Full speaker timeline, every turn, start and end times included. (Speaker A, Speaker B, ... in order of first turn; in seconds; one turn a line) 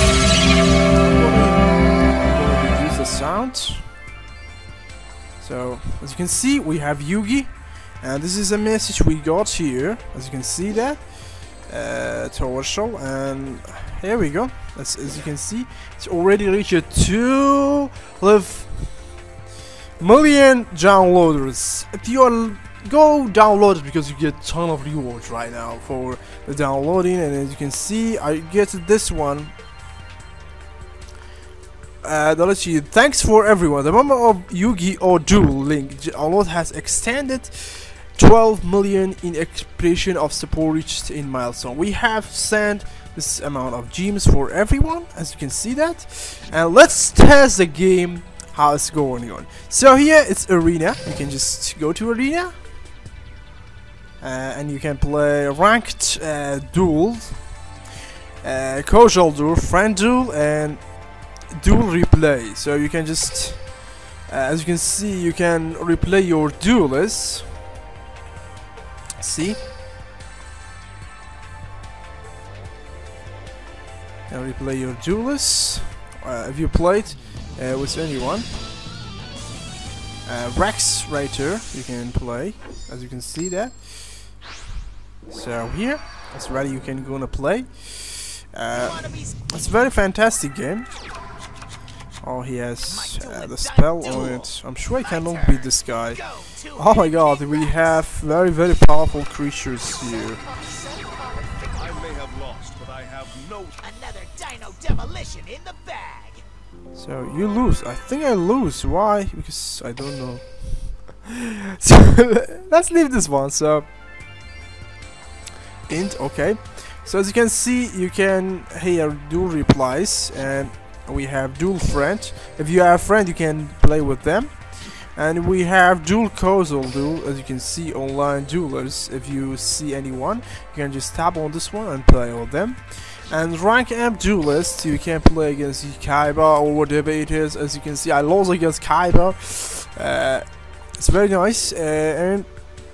Speaker A: 1.0-3.9
Speaker A: 5.4-19.2
Speaker A: 20.0-29.5
Speaker A: 32.0-52.5
Speaker A: 54.2-57.7
Speaker A: 58.4-67.6
Speaker A: 69.2-69.6
Speaker A: 74.3-78.6
Speaker A: 80.2-84.4
Speaker A: 85.3-90.9
Speaker B: 88.8-89.4
Speaker A: 92.2-100.4
Speaker B: 92.9-98.0
Speaker B: 100.0-101.8
Speaker C: 101.7-103.8
Speaker B: 103.8-106.4
Speaker A: 106.9-113.9
Speaker A: 115.9-142.5